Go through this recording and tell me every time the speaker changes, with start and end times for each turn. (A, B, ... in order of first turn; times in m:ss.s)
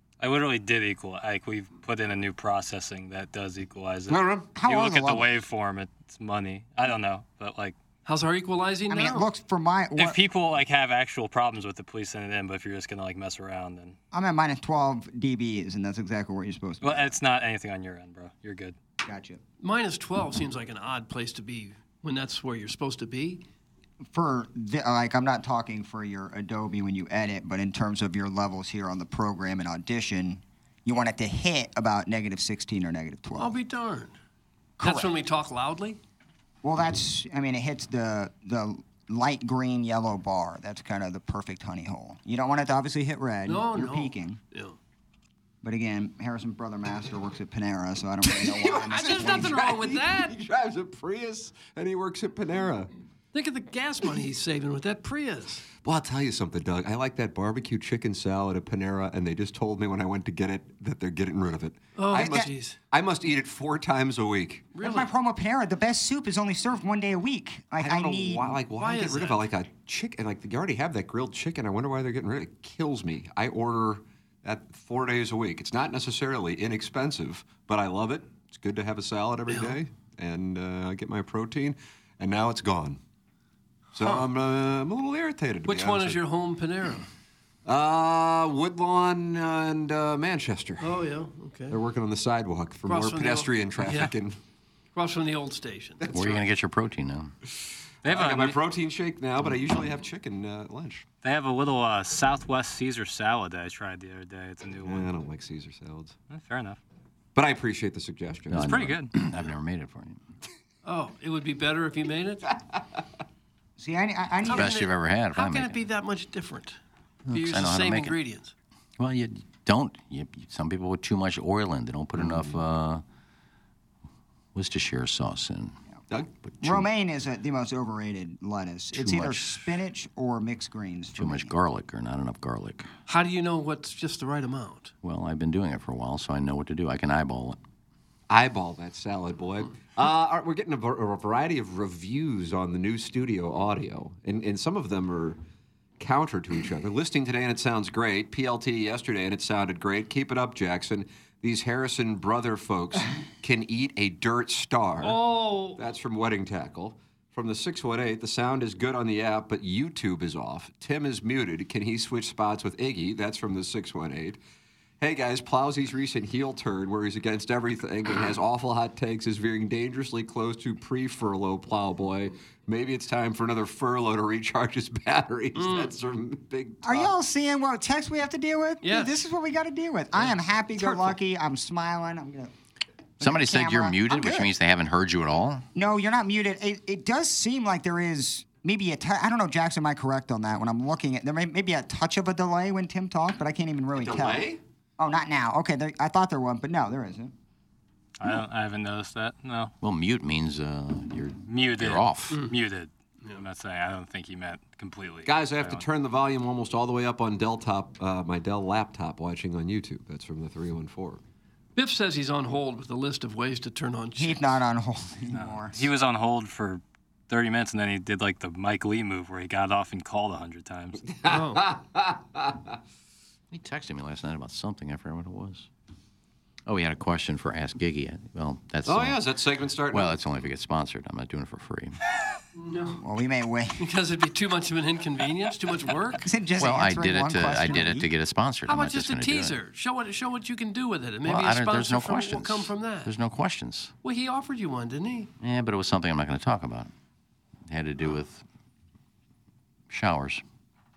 0:00.2-0:07.8 A
0:04.1-0:04.5 B
0:04.6-0:05.3 C
0:08.0-0:09.3 D
0:08.9-0:10.2 C
0:10.0-0:14.0 A
0:14.1-0:17.1 C
0:16.8-0:18.8 A
0:19.0-0:19.4 C
0:19.6-0:23.4 D
0:24.1-0:33.6 C
0:33.4-0:34.2 D
0:34.8-0:36.0 D
0:34.8-0:35.1 C
0:36.6-0:44.4 C
0:43.4-0:44.8 D
0:45.6-0:49.6 C
0:48.2-0:52.9 B
0:48.9-0:50.3 D
0:53.3-0:55.7 D
0:55.8-1:04.7 B
1:02.0-1:02.8 D
1:02.1-1:02.4 C
1:04.7-1:05.1 D
1:04.8-1:08.6 C
1:07.8-1:23.0 B
1:08.8-1:09.4 D
1:19.5-1:19.8 D
1:23.9-1:26.2 B
1:24.0-1:24.2 D
1:25.7-1:27.1 D
1:27.7-1:31.0 B
1:30.8-1:31.8 D
1:31.7-1:34.4 B
1:32.8-1:34.1 D
1:34.9-1:36.1 D
1:36.0-1:36.4 B
1:36.1-1:37.3 E
1:38.0-1:38.6 A
1:38.0-1:41.1 B
1:41.2-1:45.1 A
1:44.8-1:46.2 B
1:46.3-1:46.8 A
1:47.3-1:48.9 B
1:48.5-1:50.2 E
1:48.6-1:49.1 A
1:50.8-1:52.5 D
1:53.8-1:54.8 C
1:54.4-1:56.8 D
1:54.5-1:55.8 E
1:57.3-1:58.2 E
1:57.3-1:58.5 D
1:59.0-2:03.0 E
2:02.2-2:02.6 B
2:04.6-2:05.8 E
2:06.4-2:06.8 E
2:06.6-2:11.5 C
2:08.9-2:09.6 E
2:11.2-2:12.9 E
2:13.1-2:14.9 D
2:15.0-2:17.6 E
2:18.3-2:25.4 B
2:26.0-2:35.2 B
2:35.0-2:35.8 D
2:35.7-2:44.4 B
2:45.0-2:57.1 B
2:55.6-2:55.9 D
2:56.8-3:02.5 C
2:58.8-2:59.2 D
3:00.8-3:01.1 D
3:03.2-3:04.5 C
3:03.2-3:05.6 E
3:05.7-3:17.3 C
3:13.9-3:14.6 B
3:18.2-3:19.7 A
3:19.8-3:22.5 E
3:21.5-3:25.8 A
3:25.3-3:31.2 B
3:31.8-3:34.6 D
3:34.2-3:35.8 C
3:35.3-3:41.1 A
3:41.1-3:42.8 B
3:41.2-3:41.7 D
3:43.5-3:45.7 E
3:46.7-3:49.2 E
3:48.8-3:50.2 B
3:49.9-3:52.0 E
3:52.6-3:53.0 D
3:53.0-3:53.8 C
3:53.8-3:56.2 D
3:56.2-3:58.1 C
3:56.6-3:59.6 E
3:58.7-4:03.1 D
4:01.2-4:03.9 E
4:04.0-4:05.3 D
4:05.4-4:06.9 E
4:07.7-4:08.4 E
4:09.9-4:10.4 E